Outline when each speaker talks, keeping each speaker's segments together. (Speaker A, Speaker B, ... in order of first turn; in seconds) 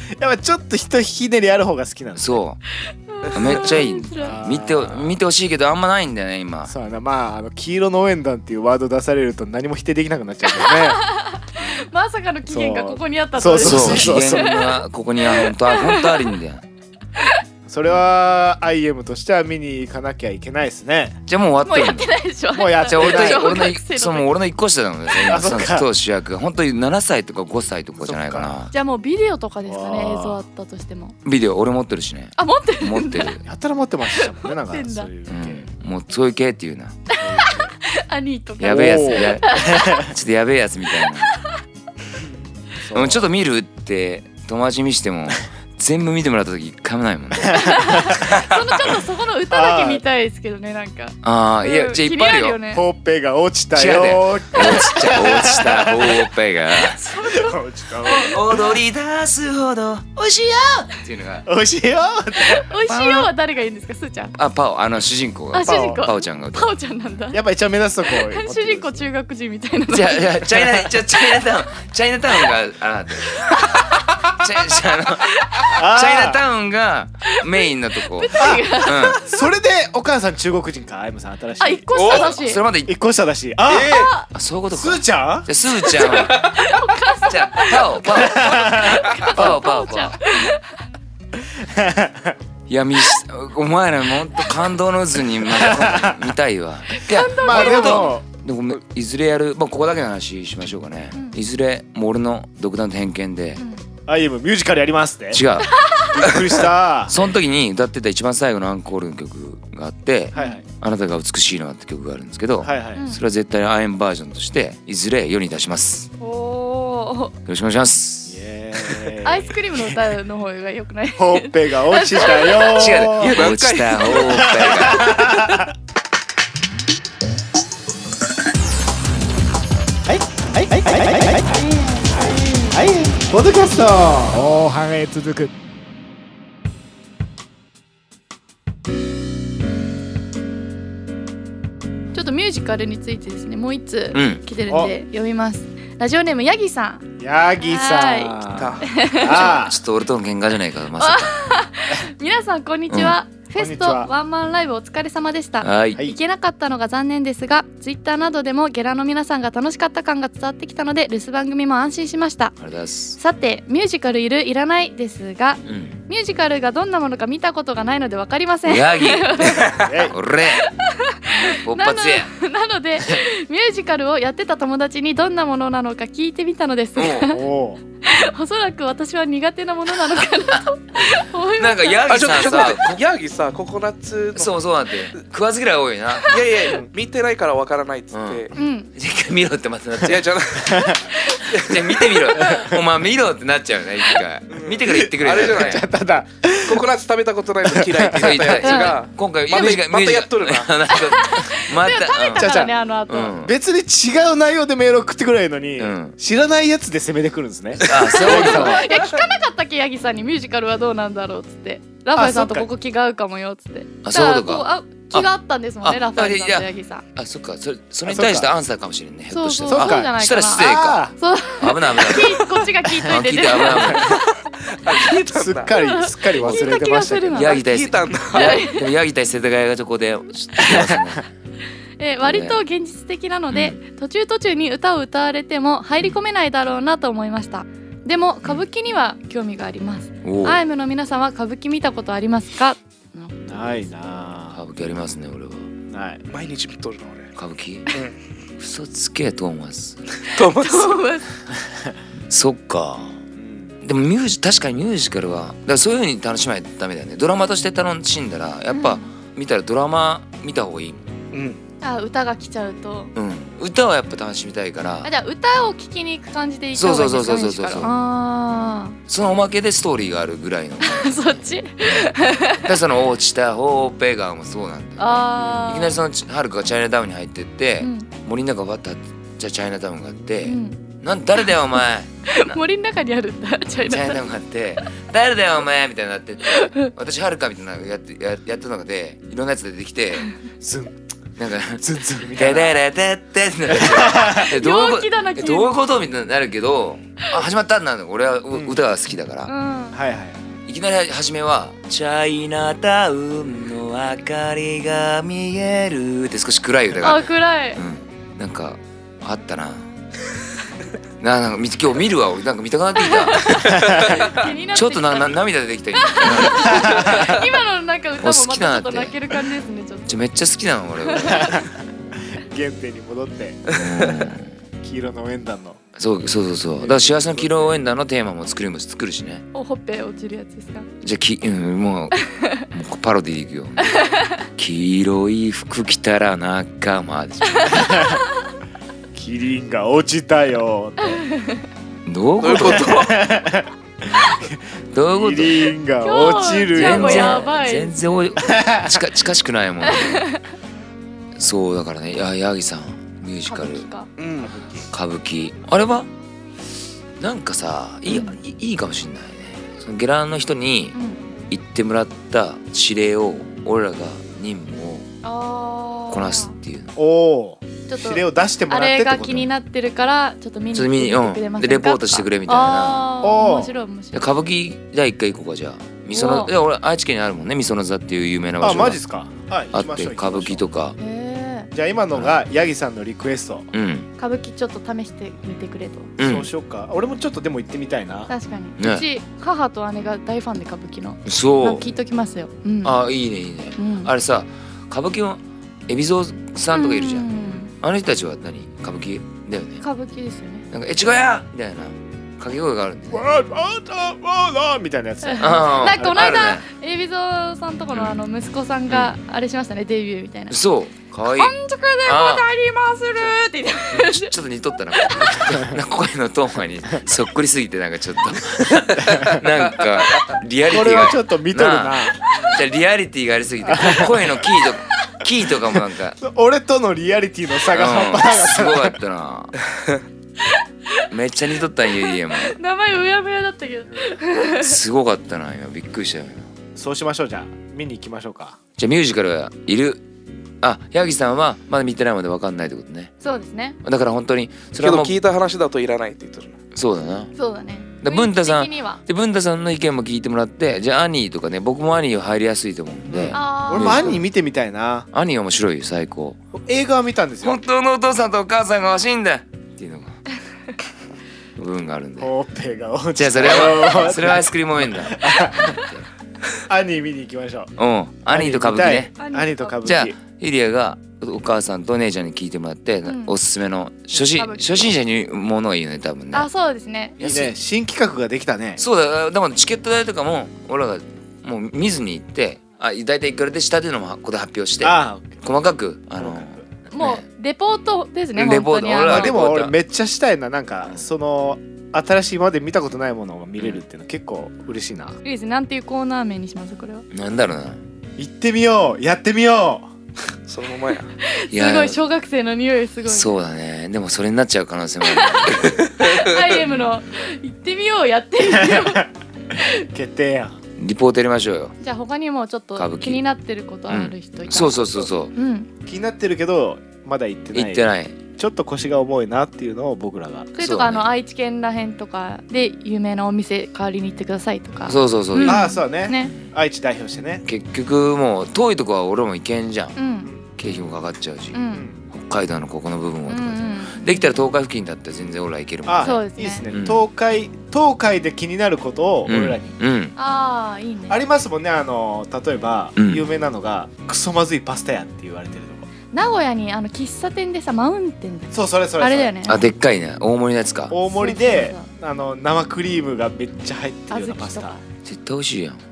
Speaker A: 0.2-2.4, 4.2-5.2, 6.7-11.0, 12.5-14.6, 17.7-21.2, 22.5-23.5, 25.2-25.9, 28.0-28.5, 29.7-30.4, 33.5-35.7, 37.2-37.7, 38.7-40.1, 42.8-43.3, 47.5-48.4, 49.5-50.0, 52.7-56.2, 57.2-58.7, 61.5-62.7, 65.6-66.0, 67.3-69.0, 75.7-76.4, 78.4-81.9, 82.9-84.1, 84.7-85.5, 88.1-89.6, 91.6-92.3, 95.5-96.3, 97.4-98.2, 104.1-105.4, 106.1-107.2, 110.3-110.6, 112.6-113.0, 118.3-119.9, 121.2-123.5, 124.2-125.7, 130.1-131.6, 132.7-135.5, 144.7-144.9, 147.2-149.8, 153.6-154.1, 169.8-170.2, 177.3-177.8, 190.8-191.0, 194.9-196.8, 197.7-198.5, 202.3-202.7, 203.4-208.8, 212.2-212.7, 218.1-218.5, 219.7-221.2, 225.2-227.6, 230.7-230.9, 243.5-244.6, 245.9-246.2, 253.4-253.8, 290.6-290.9, 291.8-292.7, 293.7-294.4, 298.5-298.8, 299.9-300.4, 313.7-314.1, 316.6-317.2, 321.3-321.7, 322.5-323.6, 324.8-325.8, 326.8-327.8, 337.7-338.2, 339.1-341.2, 342.6-344.6, 345.1-347.5, 348.4-349.0, 354.4-354.9, 367.0-369.5, 373.2-373.7, 378.6-380.6, 381.7-383.7, 386.2-388.3, 403.1-406.4, 419.1-419.4, 420.7-422.2, 423.7-424.2, 426.2-428.9, 436.8-438.6, 453.1-455.1, 456.5-457.6, 462.2-465.8, 466.7-467.7, 468.3-470.1, 477.2-478.8, 484.8-485.4, 486.2-486.6, 489.0-495.2, 498.2-499.9, 508.4-509.1, 509.9-510.6, 515.9-520.5, 525.4-527.4, 531.7-532.0, 535.9-539.7, 541.1-545.9, 548.5-549.4, 550.9-554.8
Speaker B: 2.2-2.6, 3.3-6.7, 13.6-16.6, 21.3-22.1, 22.9-28.7, 31.2-33.4, 35.3-37.0, 38.6-41.3, 42.9-48.6, 51.2-52.6, 53.7-57.0, 58.0-61.5, 62.8-63.3, 64.4-66.7, 69.9-73.6, 74.3-79.2, 82.1-82.9, 84.3-86.5, 87.2-90.2, 92.7-103.6, 105.3-106.4, 107.1-116.1, 117.5-118.4, 122.5-125.3, 144.1-144.4, 149.3-151.4, 152.9-153.2, 155.6-156.0, 162.6-163.2, 165.7-166.0, 168.7-170.7, 171.4-172.3, 177.0-177.4, 180.2-180.6, 181.6-183.0, 184.3-186.3, 188.1-190.8, 191.4-195.9, 198.2-202.5, 203.1-203.5, 205.8-206.2, 207.8-208.8, 214.0-215.3, 215.8-222.4, 223.0-224.2, 227.3-231.3, 232.2-232.6, 233.5-233.8, 240.2-240.6, 244.5-245.7, 247.4-247.9, 248.6-250.0, 252.3-253.2, 253.8-261.1, 263.1-265.1, 266.8-267.9, 269.1-272.1, 272.6-282.6, 283.8-290.3, 291.4-299.5, 300.7-309.9, 311.2-313.8, 314.4-317.3, 318.2-319.2, 320.1-321.6, 323.7-324.5, 326.0-329.4, 331.0-332.2, 332.7-334.0, 334.6-338.0, 342.1-343.0, 344.9-345.7, 346.7-350.3, 351.4-353.9, 354.9-356.1, 357.2-361.0, 361.5-365.1, 366.1-366.9, 370.7-373.1, 374.1-379.0, 379.7-381.0, 382.1-382.4, 383.7-384.1, 386.2-386.5, 388.8-389.1, 391.2-391.9, 392.8-399.8, 400.7-403.2, 405.4-406.6, 407.9-408.2, 408.9-409.1, 410.5-412.4, 413.9-426.2, 427.7-429.6, 431.1-432.6, 434.5-436.5, 438.8-440.0, 440.6-443.1, 443.8-445.2, 446.8-447.3, 448.0-454.2, 455.1-456.4, 457.4-460.2, 461.6-462.3, 463.1-466.1, 467.8-469.1, 469.8-476.5, 477.2-477.6, 478.8-487.2, 488.4-489.8, 493.6-493.8, 497.1-497.8, 501.5-502.0, 503.1-505.8, 506.5-506.9, 510.8-511.8, 512.8-513.2, 513.9-515.3, 517.5-518.2, 520.6-521.1, 524.9-525.7, 527.5-530.0, 530.6-537.0, 539.3-540.1, 543.0-543.3, 549.5-551.0, 555.0-555.8
Speaker C: 2.8-4.4, 10.5-16.3, 21.6-24.3, 28.7-31.2, 32.4-33.4, 34.2-35.1, 37.1-40.1, 47.5-52.8, 56.7-58.4, 62.4-64.3, 65.5-67.4, 68.0-70.6, 73.5-73.9, 75.3-75.7, 77.3-79.4, 81.6-82.6, 83.9-84.3, 85.9-90.8, 96.9-98.2, 101.1-101.4, 103.6-103.8, 105.7-106.2, 110.3-110.6, 112.9-113.2, 116.2-117.4, 119.2-123.0, 142.1-147.1, 147.6-149.6, 151.0-162.5, 163.2-169.8, 170.5-177.4, 178.0-182.1, 188.6-188.9, 198.6-199.0, 200.9-203.4, 208.0-217.0, 219.3-224.2, 225.7-227.7, 228.3-228.9, 232.0-243.9, 250.4-251.3, 258.7-259.1, 261.8-263.1, 265.0-269.0, 270.8-272.7, 275.0-276.0, 277.8-278.1, 280.4-280.8, 282.3-284.2, 286.5-286.9, 294.3-295.8, 299.5-300.0, 307.0-307.8, 313.0-315.4, 315.9-320.2, 321.1-321.6, 329.5-330.9, 332.2-332.7, 333.8-334.4, 337.5-338.2, 341.1-341.6, 346.0-348.0, 349.9-350.4, 353.5-354.1, 360.9-361.2, 365.2-366.5, 367.9-374.3, 376.1-376.5, 381.0-381.7, 384.2-386.1, 388.3-393.0, 393.8-394.1, 396.7-397.7, 399.8-400.7, 405.2-410.6, 411.3-414.3, 415.0-415.4, 430.5-431.1, 431.9-434.8, 443.2-443.8, 447.4-449.0, 453.3-454.2, 469.2-469.8, 473.1-473.4, 474.1-474.9, 476.3-477.2, 486.9-489.4, 495.2-497.1, 501.2-503.4, 505.1-509.1, 511.8-515.7, 520.5-526.3, 530.0-530.3, 531.5-531.9, 533.3-534.3, 536.0-536.6, 540.2-541.2, 546.1-549.6, 551.1-551.9, 554.1-554.8
Speaker D: 81.9-82.3, 83.7-84.1, 86.2-86.6, 123.2-124.5, 125.1-125.7, 148.5-149.0, 182.1-184.6, 186.3-188.6, 190.0-191.9, 194.5-195.9, 196.7-200.8, 208.1-209.2, 224.1-226.6, 227.6-228.6, 246.3-247.3, 247.9-248.2, 250.2-251.0, 261.3-261.6, 323.7-324.1, 342.4-343.2, 354.2-354.5, 444.8-446.6, 500.5-501.1, 505.8-506.2